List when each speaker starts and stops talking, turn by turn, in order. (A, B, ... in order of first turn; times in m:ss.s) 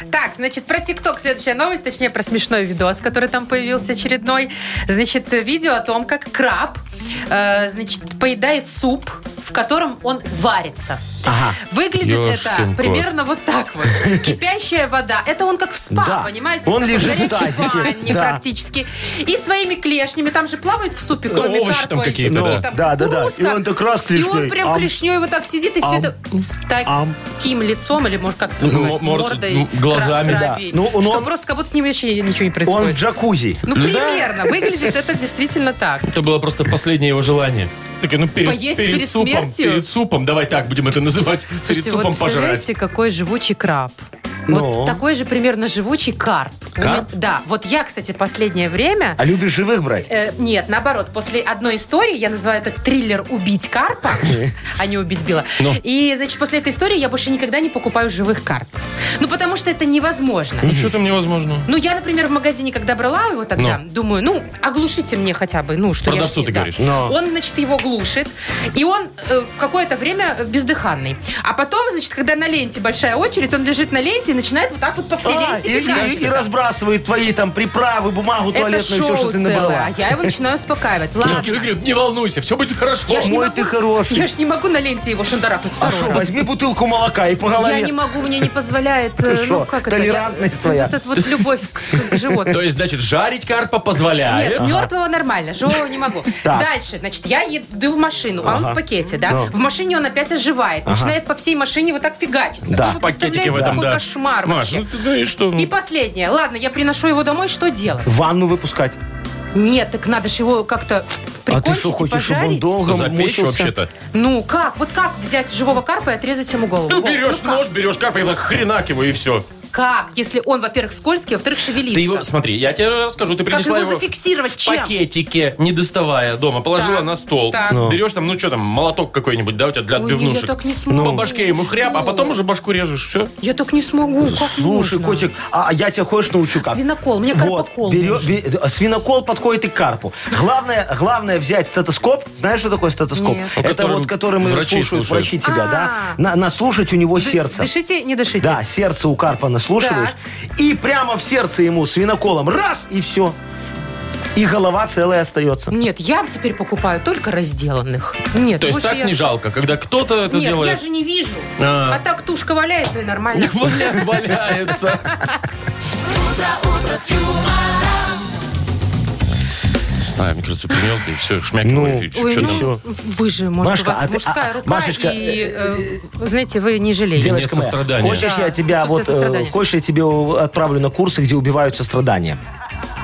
0:00.1-0:11.0 A
0:11.2-0:11.6 B
0:11.6-0:33.0 A
0:12.0-0:13.1 C
0:14.0-0:14.3 B
0:15.9-0:18.4 B
0:21.3-0:22.6 C
0:22.2-0:25.0 B
0:25.8-0:26.1 B
0:26.8-0:27.2 B
0:28.6-0:30.5 C
0:30.3-0:31.3 B
0:32.6-0:33.7 B
0:33.7-0:36.1 A
0:33.7-0:34.5 C
0:36.1-0:42.7 C
0:38.4-0:39.8 A
0:41.6-0:49.2 A
0:44.5-0:45.0 B
0:46.8-0:47.1 C
0:49.2-0:50.1 B
0:50.1-1:00.7 A
0:54.2-0:54.5 B
1:00.6-1:00.9 B
1:00.6-1:01.7 C
1:01.6-1:16.5 A
1:06.0-1:06.8 C
1:06.8-1:07.1 B
1:15.2-1:20.3 B
1:18.5-1:21.6 A
1:21.2-1:23.3 C
1:23.1-1:26.4 A
1:23.1-1:24.2 B
1:25.8-1:27.9 B
1:27.6-1:32.6 A
1:29.2-1:31.0 B
1:32.5-1:34.6 C
1:34.3-1:44.9 A
1:34.6-1:34.9 B
1:36.4-1:36.7 B
1:38.4-1:39.5 B
1:40.8-1:41.1 B
1:42.7-1:43.8 B
1:42.8-1:45.7 C
1:45.5-1:48.1 A
1:48.0-1:49.0 B
1:49.5-1:52.8 A
1:51.5-1:53.7 B
1:52.8-1:53.9 C
1:54.1-1:57.6 A
1:56.9-1:59.4 C
1:59.7-2:02.2 A
2:01.9-2:13.3 C
2:03.5-2:04.9 A
2:06.7-2:07.8 A
2:07.7-2:08.0 B
2:09.9-2:12.3 A
2:10.9-2:11.2 B
2:13.4-2:15.3 A
2:14.2-2:27.7 B
2:16.6-2:18.3 A
2:23.1-2:23.6 A
2:23.6-2:25.3 C
2:25.4-2:26.2 A
2:27.2-2:28.6 A
2:28.4-2:33.4 B
2:29.8-2:30.2 A
2:34.3-2:35.7 B
2:35.7-2:39.1 A
2:38.6-2:40.8 C
2:40.3-2:43.7 A
2:41.6-2:42.0 C
2:43.3-2:45.3 C
2:45.1-2:45.4 A
2:46.7-2:47.4 A
2:50.0-2:52.7 C
2:51.6-2:52.8 B
2:52.1-2:57.4 A
2:53.6-2:55.8 B
2:57.2-3:02.4 B
2:57.2-2:58.2 C
2:58.1-2:59.5 A